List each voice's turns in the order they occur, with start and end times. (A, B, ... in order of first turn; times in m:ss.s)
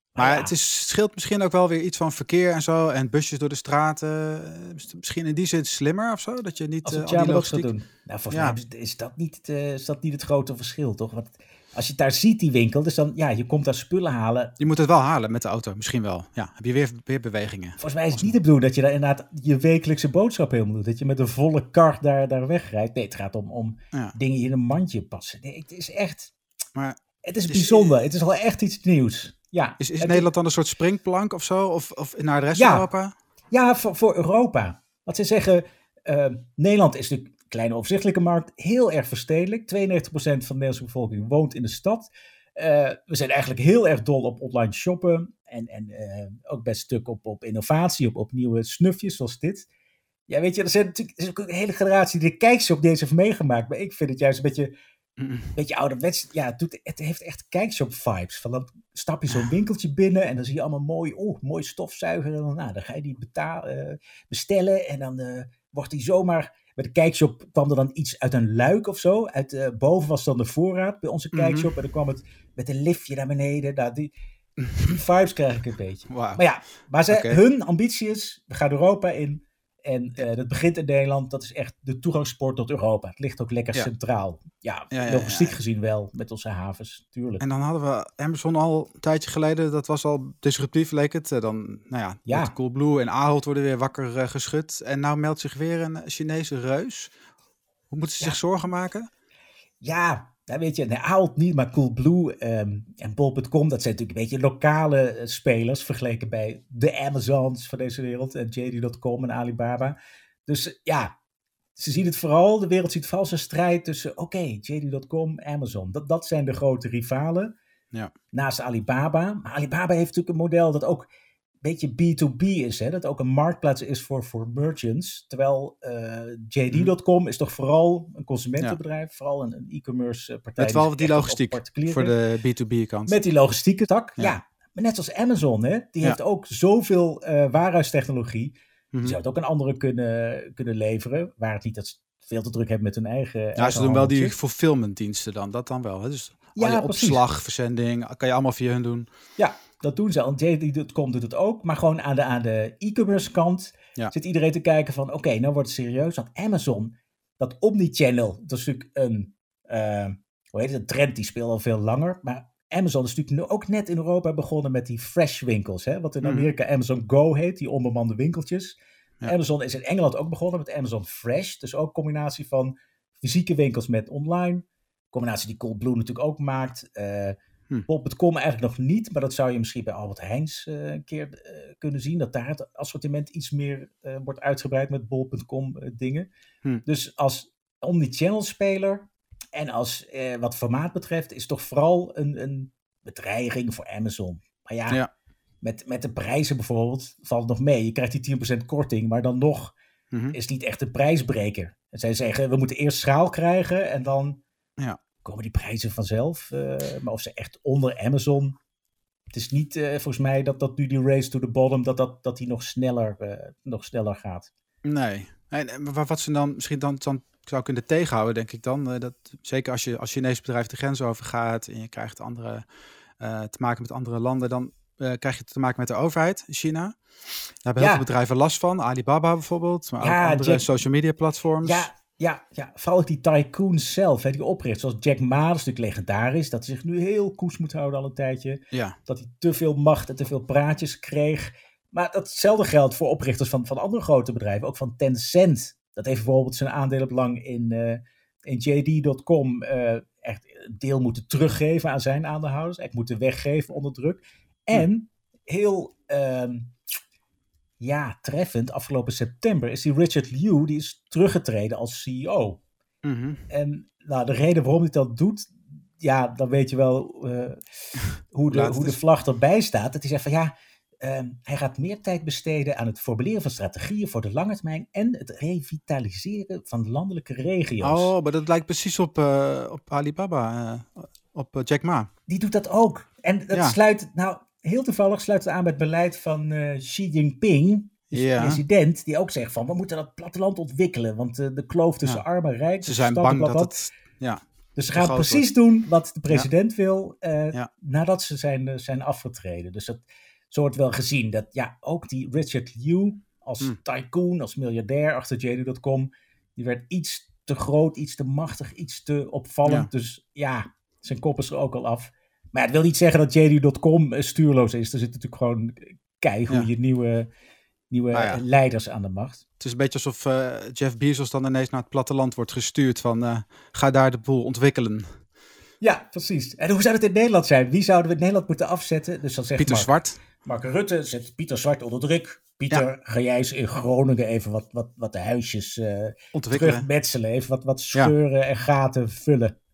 0:00.2-0:00.5 A
0:00.2-0:07.7 B
0:06.8-0:14.6 A
0:08.3-0:08.6 B
0:14.6-0:18.3 B
0:17.8-0:26.3 A
0:26.8-0:27.9 B
0:27.2-0:30.3 A
0:29.8-0:33.1 B
0:32.6-0:32.9 A
0:33.5-0:49.7 A
0:50.3-0:54.7 A
0:55.2-0:55.5 B
0:55.5-1:14.1 A
1:11.3-1:11.7 B
1:14.8-1:27.4 A
1:16.1-1:16.4 B
1:17.1-1:17.4 B
1:24.9-1:25.5 B
1:27.4-1:37.1 B
1:32.3-1:32.5 A
1:37.9-1:39.1 B
1:39.8-1:50.0 A
1:50.5-1:51.2 A
1:51.8-1:57.5 A
1:58.3-2:01.1 A
2:01.6-2:12.2 A
2:10.6-2:13.2 B
2:13.1-2:24.4 A
2:18.9-2:19.2 B
2:23.6-2:29.1 B
2:26.6-2:27.2 A
2:29.4-3:06.3 A
2:46.2-2:46.5 B
3:06.8-3:15.0 A
3:15.6-3:19.8 A
3:20.1-3:20.4 B
3:20.3-3:24.4 A
3:25.2-3:28.6 A
3:29.3-3:34.5 A
3:34.8-3:42.6 B
3:43.2-3:47.0 B
3:47.6-3:51.9 B
3:47.8-3:48.1 A
3:50.0-3:50.7 A
3:51.6-4:16.7 A
4:17.8-4:22.6 A
4:23.0-4:23.4 B
4:23.5-4:27.6 A
4:28.2-4:38.1 A
4:28.5-4:29.0 B
4:37.8-4:42.1 B
4:42.3-4:53.8 A
4:48.1-4:48.6 B
4:52.8-4:54.4 B
4:54.8-5:17.3 A
4:54.9-4:55.4 B
5:17.9-5:19.4 A
5:18.1-5:18.4 B
5:19.6-5:25.2 B
5:25.8-5:39.6 A
5:29.6-5:30.2 B
5:36.3-5:36.9 B